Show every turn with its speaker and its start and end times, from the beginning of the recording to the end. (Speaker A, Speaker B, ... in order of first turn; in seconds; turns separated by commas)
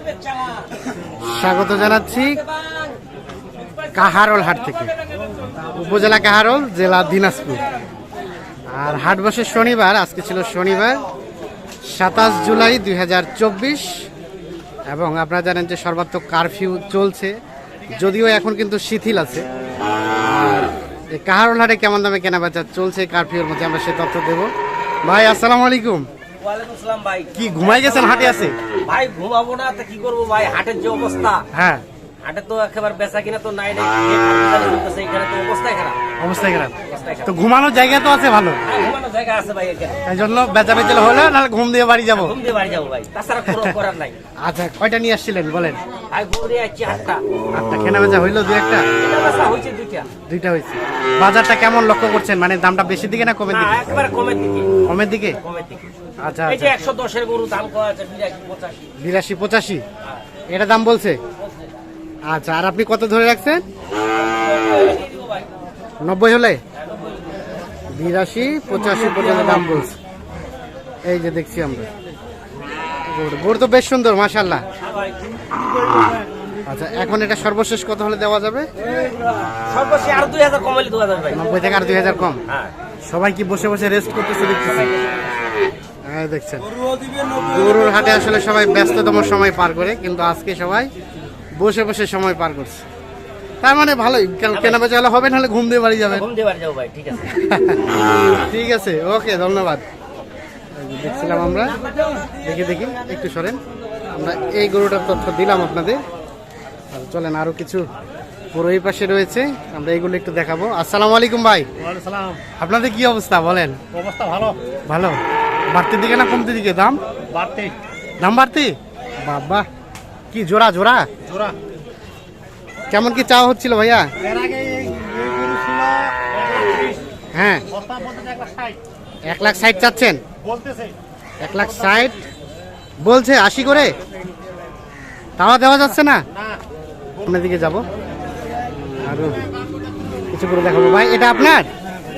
Speaker A: 1.2-2.4, Speaker A: 3.9-4.9, Speaker A: 5.7-7.6, Speaker A: 8.7-11.0, Speaker A: 11.9-14.1, Speaker A: 14.9-17.3, Speaker A: 17.9-19.4, Speaker A: 20.2-24.5, Speaker A: 25.0-26.1, Speaker B: 26.4-31.4, Speaker A: 27.4-28.5, Speaker A: 31.5-31.8, Speaker B: 32.2-36.0, Speaker A: 36.2-38.6, Speaker B: 36.9-37.3, Speaker B: 38.6-40.0, Speaker A: 40.0-42.3, Speaker B: 42.1-44.1, Speaker A: 44.4-45.8, Speaker B: 46.1-47.2, Speaker A: 47.5-48.8, Speaker B: 49.0-50.1, Speaker A: 50.3-53.9, Speaker B: 53.5-54.7, Speaker A: 54.9-55.4, Speaker B: 55.4-55.9, Speaker A: 56.2-56.7, Speaker B: 56.5-58.9, Speaker A: 59.0-59.8, Speaker A: 60.5-61.2, Speaker A: 62.3-63.6, Speaker B: 64.4-65.5, Speaker A: 66.0-66.6, Speaker B: 66.8-67.2, Speaker A: 67.9-69.9, Speaker A: 71.0-71.9, Speaker A: 73.1-74.6, Speaker B: 74.8-75.2, Speaker A: 76.7-78.7, Speaker B: 79.7-81.4, Speaker A: 81.3-82.4, Speaker A: 83.0-84.9, Speaker B: 84.6-85.2, Speaker A: 86.0-86.7, Speaker A: 87.4-90.9, Speaker A: 91.6-92.8, Speaker A: 93.6-96.2, Speaker B: 94.5-94.8, Speaker B: 96.1-97.4, Speaker A: 97.3-99.8, Speaker A: 100.8-101.8, Speaker A: 102.4-103.6, Speaker A: 104.1-106.0, Speaker A: 106.9-107.8, Speaker A: 108.5-111.7, Speaker C: 112.0-112.3, Speaker A: 112.6-113.8, Speaker C: 114.1-114.5, Speaker A: 114.9-115.2, Speaker A: 115.7-117.0, Speaker C: 117.5-117.7, Speaker A: 118.2-119.6, Speaker A: 120.3-121.1, Speaker A: 122.9-124.1, Speaker C: 124.4-126.9, Speaker A: 127.3-127.7, Speaker C: 127.9-128.7, Speaker A: 129.3-130.2, Speaker A: 131.4-132.2, Speaker A: 133.0-133.9, Speaker A: 135.4-136.2, Speaker A: 137.2-137.8, Speaker A: 139.0-139.4, Speaker A: 140.3-141.7